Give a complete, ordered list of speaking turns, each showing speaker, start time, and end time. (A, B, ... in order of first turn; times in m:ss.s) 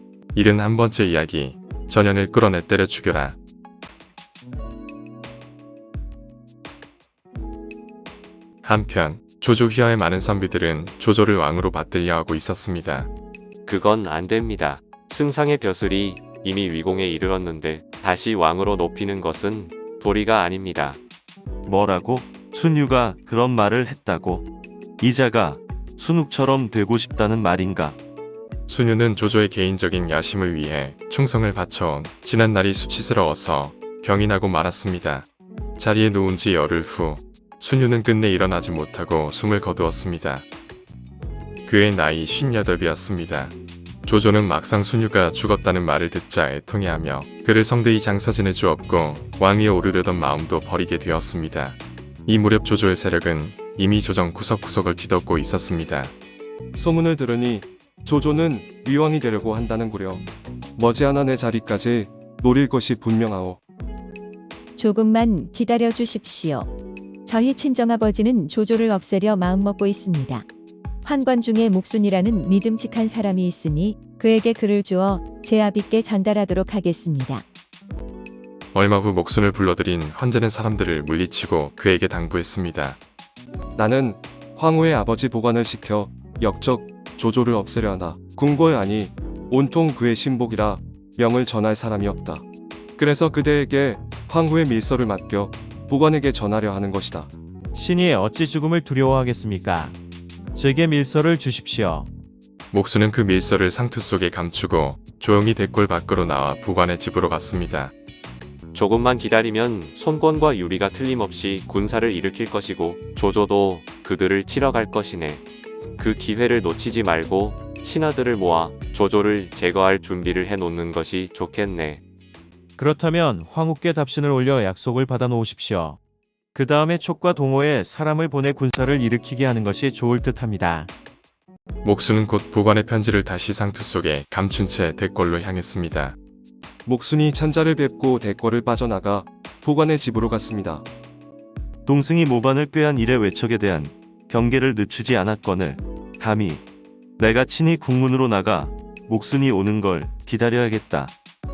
0:00.3-0:03.4 A
0:08.6-0:13.1 A
0:13.7-0:21.0 B
0:21.7-0:24.5 C
0:25.0-0:28.0 C
0:28.7-0:40.5 A
0:41.7-0:43.5 A
0:44.1-0:56.1 A
0:56.8-1:00.2 D
1:00.8-1:03.6 D
1:04.8-1:06.7 E
1:07.3-1:10.4 E
1:11.0-1:17.4 E
1:18.7-1:23.0 A
1:23.8-1:32.4 D
1:33.0-1:37.3 D
1:37.7-1:40.0 F
1:40.6-1:42.1 F
1:42.7-1:47.9 A
1:48.7-1:55.4 B
1:56.0-2:02.0 B
2:02.8-2:06.0 F
2:06.5-2:10.9 F
2:11.8-2:16.2 A
2:16.9-2:20.9 D
2:21.9-2:26.6 C
2:27.2-2:31.1 C